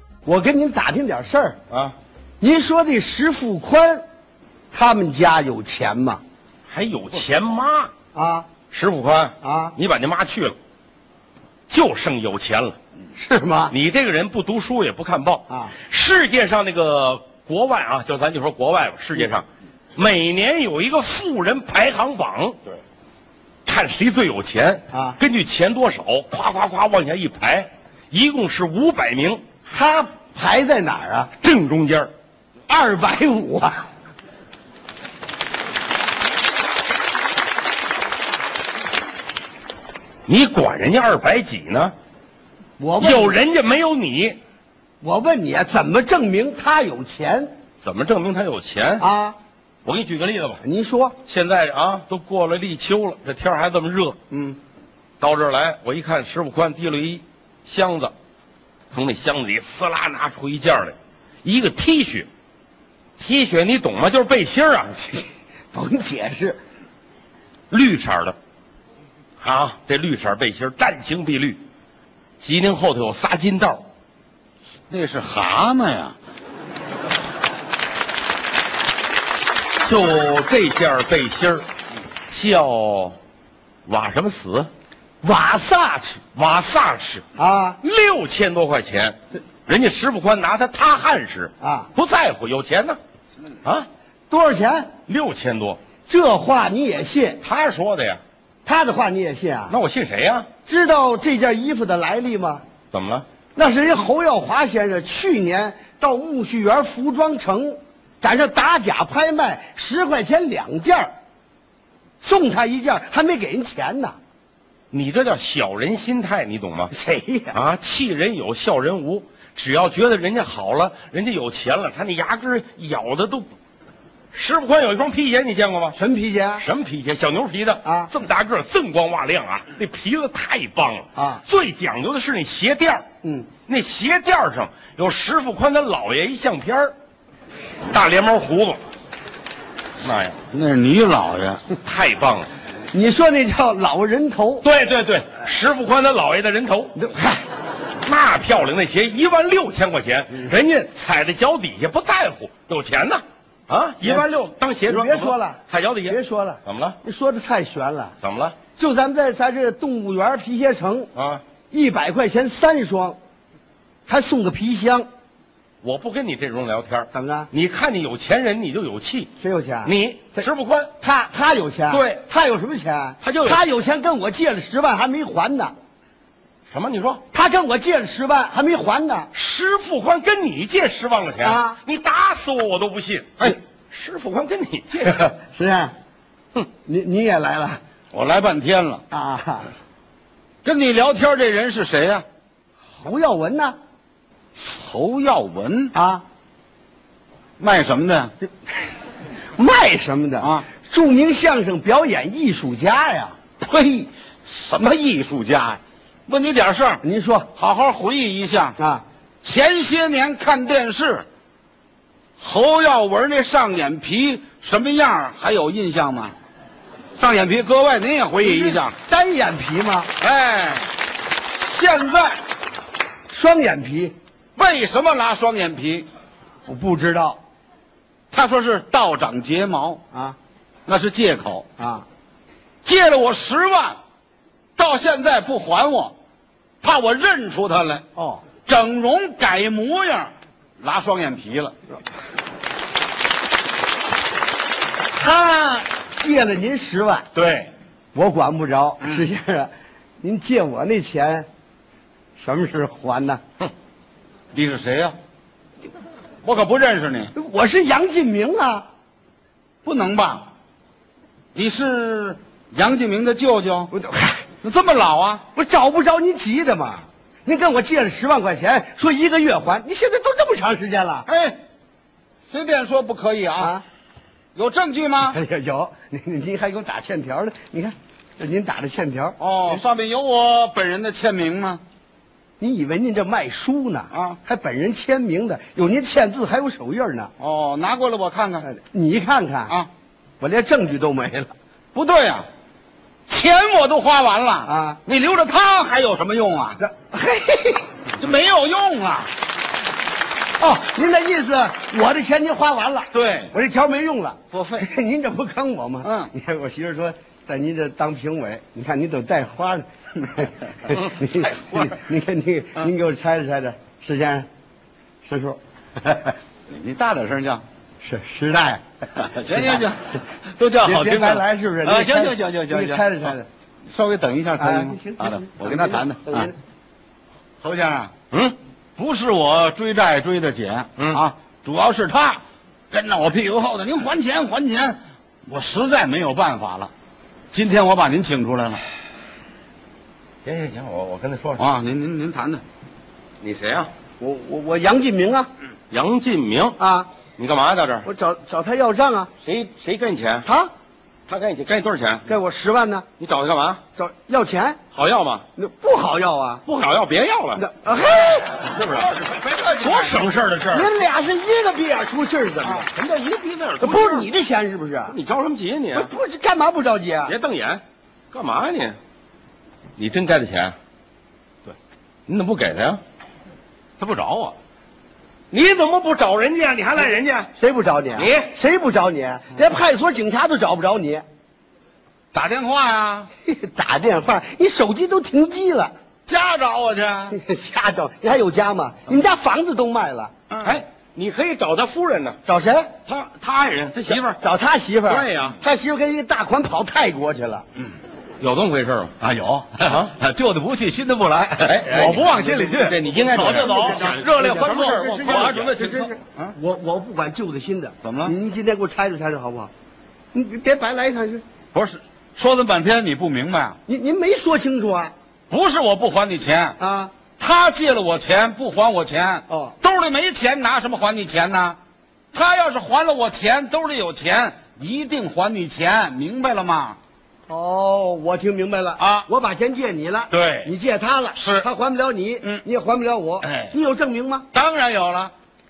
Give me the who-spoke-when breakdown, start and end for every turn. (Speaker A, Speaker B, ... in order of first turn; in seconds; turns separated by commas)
Speaker A: 0.2-1.6, Speaker B: 1.7-1.9, Speaker A: 2.4-4.0, Speaker A: 4.7-6.2, Speaker B: 6.7-7.9, Speaker A: 8.1-8.5, Speaker B: 8.7-10.6, Speaker A: 9.4-9.8, Speaker B: 11.7-12.8, Speaker A: 13.2-13.7, Speaker B: 13.7-22.6, Speaker B: 23.7-29.4, Speaker A: 24.9-25.2, Speaker A: 29.7-31.3, Speaker B: 31.4-32.1, Speaker A: 32.7-33.9, Speaker B: 40.3-41.9, Speaker A: 42.8-43.4, Speaker B: 43.0-44.4, Speaker A: 45.0-47.5, Speaker B: 47.8-49.0, Speaker A: 49.0-49.4, Speaker B: 49.9-50.6, Speaker A: 50.6-51.2, Speaker B: 51.2-54.2, Speaker B: 55.2-58.1, Speaker B: 58.9-62.3, Speaker B: 63.2-65.1, Speaker A: 65.7-66.6, Speaker B: 67.7-68.4, Speaker B: 69.4-71.6, Speaker B: 72.4-73.8, Speaker C: 74.9-76.2, Speaker B: 79.8-81.7, Speaker B: 82.3-83.2, Speaker B: 83.9-84.7, Speaker A: 85.2-86.2, Speaker B: 86.3-87.2, Speaker A: 87.4-87.8, Speaker B: 87.8-89.2, Speaker B: 89.7-93.0, Speaker A: 91.6-91.9, Speaker A: 94.3-94.9, Speaker B: 95.1-95.8, Speaker A: 96.1-97.4, Speaker B: 97.4-98.2, Speaker A: 98.6-99.8, Speaker B: 99.7-100.5, Speaker A: 100.6-102.6, Speaker B: 102.9-103.2, Speaker A: 103.5-111.1, Speaker A: 112.2-114.2, Speaker B: 114.9-116.9, Speaker A: 116.9-117.6, Speaker B: 117.5-123.5, Speaker B: 124.3-126.0, Speaker A: 126.0-126.6, Speaker B: 126.6-133.1, Speaker A: 127.8-128.1, Speaker A: 131.2-131.4, Speaker A: 133.2-133.5, Speaker B: 133.7-136.9, Speaker B: 137.9-138.8, Speaker B: 140.0-140.4, Speaker C: 140.5-141.6, Speaker B: 141.8-142.5, Speaker A: 142.9-144.7, Speaker B: 144.6-147.0, Speaker A: 147.0-147.4, Speaker B: 148.0-157.0, Speaker A: 154.9-158.2, Speaker B: 158.2-158.6, Speaker A: 158.8-161.1, Speaker B: 161.2-161.4, Speaker A: 161.7-163.2, Speaker A: 164.1-165.1, Speaker B: 165.8-169.3, Speaker A: 167.1-167.5, Speaker A: 169.4-170.4, Speaker B: 169.8-170.9, Speaker A: 171.0-175.7, Speaker B: 171.9-172.2, Speaker B: 173.2-173.7, Speaker B: 176.7-177.2, Speaker A: 177.3-179.3, Speaker B: 179.3-185.3, Speaker A: 181.4-181.8, Speaker A: 185.2-185.9, Speaker A: 186.8-187.8, Speaker C: 188.1-189.0, Speaker A: 189.1-189.7, Speaker C: 190.6-192.2, Speaker A: 193.0-193.8, Speaker C: 194.6-195.9, Speaker A: 195.9-196.2, Speaker C: 197.6-198.3, Speaker A: 199.6-203.4, Speaker C: 200.4-200.7, Speaker C: 203.6-207.0, Speaker A: 207.0-207.5, Speaker C: 207.6-208.8, Speaker A: 208.8-209.0, Speaker C: 209.4-211.2, Speaker C: 212.4-216.3, Speaker C: 217.2-219.0, Speaker A: 218.4-220.1, Speaker C: 220.2-220.9, Speaker C: 221.6-222.4, Speaker A: 223.3-224.2, Speaker C: 224.6-226.1, Speaker A: 226.7-227.4, Speaker C: 228.3-230.0, Speaker A: 230.1-230.4, Speaker C: 230.9-231.7, Speaker A: 231.8-232.1, Speaker C: 232.8-234.0, Speaker C: 234.8-236.2, Speaker C: 236.8-238.1, Speaker A: 238.2-238.4, Speaker C: 238.7-241.7, Speaker A: 245.1-247.3, Speaker C: 247.3-247.7, Speaker A: 248.1-251.5, Speaker A: 252.4-253.4, Speaker C: 254.5-255.2, Speaker C: 256.4-257.3, Speaker A: 257.4-258.9, Speaker C: 259.8-260.5, Speaker C: 261.5-263.9, Speaker A: 263.9-264.4, Speaker C: 264.6-265.4, Speaker A: 265.5-271.3, Speaker C: 271.3-271.6, Speaker C: 272.5-273.8, Speaker A: 273.6-273.8, Speaker C: 274.6-275.4, Speaker A: 275.3-279.4, Speaker C: 279.4-281.8, Speaker A: 282.6-287.3, Speaker C: 284.1-284.4, Speaker C: 287.4-288.7, Speaker A: 288.6-289.8, Speaker A: 290.4-291.5, Speaker C: 291.9-292.5, Speaker C: 293.3-296.8, Speaker A: 294.6-295.0, Speaker A: 296.8-298.0, Speaker C: 298.2-299.3, Speaker A: 300.6-314.5, Speaker C: 303.1-303.5, Speaker C: 304.5-304.9, Speaker C: 306.0-306.3, Speaker A: 315.2-316.4, Speaker C: 316.7-317.6, Speaker A: 318.0-318.8, Speaker C: 319.2-323.1, Speaker A: 319.5-319.8, Speaker A: 320.8-323.5, Speaker C: 323.9-326.5, Speaker A: 324.6-326.6, Speaker C: 327.6-328.1, Speaker C: 329.0-336.9, Speaker C: 337.5-338.8, Speaker B: 340.4-341.6, Speaker C: 341.6-342.6, Speaker B: 343.4-343.9, Speaker A: 344.2-345.5, Speaker B: 345.9-346.8, Speaker A: 346.8-347.1, Speaker B: 347.4-348.1, Speaker A: 348.1-349.3, Speaker B: 349.4-350.5, Speaker A: 350.4-350.7, Speaker B: 351.3-352.2, Speaker A: 352.3-353.1, Speaker B: 353.2-353.8, Speaker A: 354.0-354.8, Speaker B: 354.9-355.4, Speaker A: 355.6-356.6, Speaker B: 356.7-357.6, Speaker A: 357.6-358.6, Speaker B: 358.6-360.9, Speaker C: 358.9-360.3, Speaker A: 360.7-362.9, Speaker B: 362.7-364.3, Speaker A: 363.8-365.2, Speaker B: 365.1-366.1, Speaker A: 365.9-367.4, Speaker B: 367.3-369.0, Speaker B: 370.0-370.8, Speaker B: 372.3-373.0, Speaker C: 374.0-374.6, Speaker B: 375.5-377.5, Speaker A: 377.6-381.2, Speaker B: 378.2-378.5, Speaker C: 382.3-383.3, Speaker A: 383.4-385.9, Speaker C: 386.3-387.4, Speaker A: 387.3-390.3, Speaker C: 390.5-390.8, Speaker B: 390.6-392.4, Speaker A: 392.5-392.9, Speaker B: 393.1-394.4, Speaker A: 394.4-397.6, Speaker B: 395.1-395.6, Speaker B: 398.4-399.1, Speaker C: 399.2-405.7, Speaker B: 399.9-400.1, Speaker B: 401.6-406.1, Speaker A: 403.4-409.7, Speaker C: 408.0-408.4, Speaker A: 410.3-411.4, Speaker C: 411.7-413.8, Speaker A: 413.9-415.1, Speaker C: 415.5-416.8, Speaker A: 416.8-417.1, Speaker C: 417.4-421.8, Speaker A: 419.5-419.8, Speaker C: 422.3-427.0, Speaker A: 427.5-434.5, Speaker C: 429.0-429.3, Speaker C: 430.3-430.7, Speaker C: 431.4-431.7, Speaker C: 433.4-433.7, Speaker C: 434.5-435.3